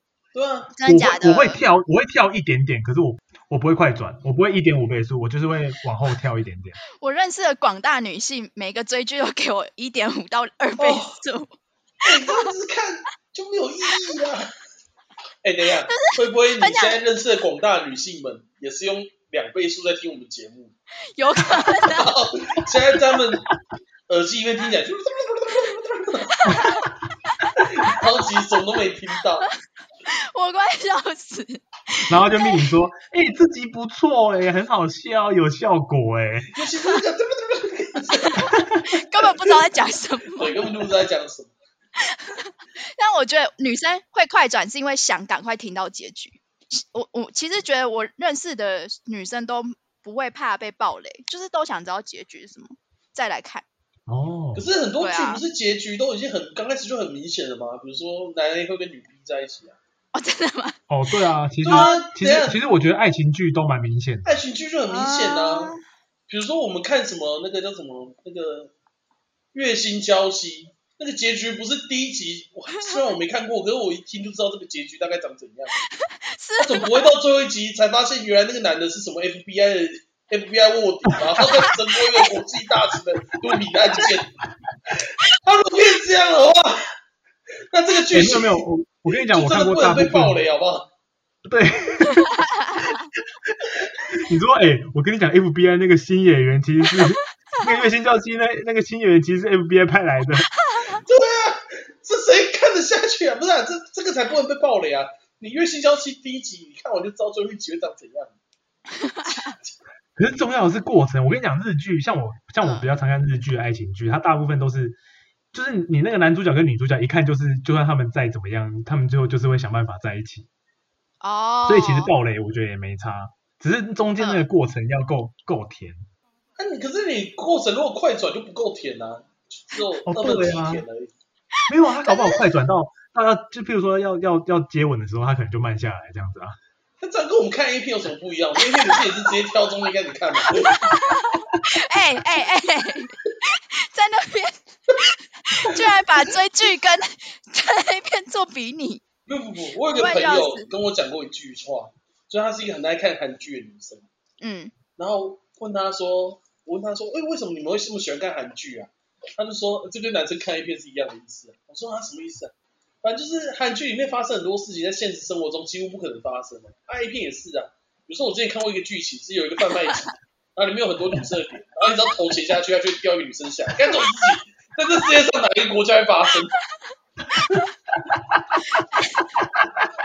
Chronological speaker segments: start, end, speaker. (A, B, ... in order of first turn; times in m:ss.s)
0:00.4-0:00.7 A
0:00.7-0:01.6 B
0:00.8-0:06.8 C
0:07.0-0:11.5 B
0:10.8-0:11.2 A
0:12.0-0:14.5 A
0:12.2-0:12.5 B
0:15.4-0:20.7 A
0:15.9-0:17.0 B
0:21.2-0:22.1 B
0:21.5-0:23.5 A
0:24.1-0:26.5 A
0:26.4-0:27.6 B
0:26.5-0:26.8 C
0:27.6-0:29.5 A
0:30.0-0:32.7 B
0:32.1-0:36.5 C
0:36.5-0:38.5 A
0:38.2-0:40.7 B
0:38.6-0:38.8 C
0:39.4-0:39.6 A
0:40.4-0:41.5 A
0:42.0-0:53.6 B
0:54.1-0:54.7 C
0:54.6-0:59.8 A
0:55.0-0:55.4 B
1:00.1-1:00.8 B
1:00.9-1:04.3 C
1:01.6-1:02.6 A
1:01.7-1:02.0 B
1:04.2-1:05.7 A
1:04.9-1:05.8 B
1:06.3-1:08.7 A
1:09.5-1:15.8 A
1:12.8-1:13.0 B
1:16.0-1:17.1 B
1:16.6-1:24.4 A
1:21.2-1:21.6 C
1:25.3-1:26.9 A
1:27.7-1:30.9 A
1:28.1-1:30.4 C
1:31.5-1:33.0 C
1:32.2-1:33.0 B
1:33.5-1:40.5 C
1:40.7-1:41.0 B
1:41.0-1:48.4 A
1:49.0-1:49.5 B
1:49.3-1:49.7 A
1:50.2-1:55.0 C
1:52.6-1:52.9 B
1:55.5-2:00.5 C
2:01.2-2:02.1 B
2:01.6-2:06.0 C
2:04.2-2:04.5 B
2:06.6-2:11.1 A
2:10.1-2:10.8 C
2:11.7-2:16.6 C
2:12.0-2:12.4 B
2:17.0-2:20.9 A
2:18.7-2:19.1 B
2:20.5-2:29.0 B
2:29.3-2:34.1 A
2:29.9-2:30.7 B
2:34.4-2:34.7 B
2:35.0-2:42.5 A
2:43.0-2:56.5 A
2:54.0-2:54.3 B
2:58.1-2:58.4 C
2:58.7-2:59.3 B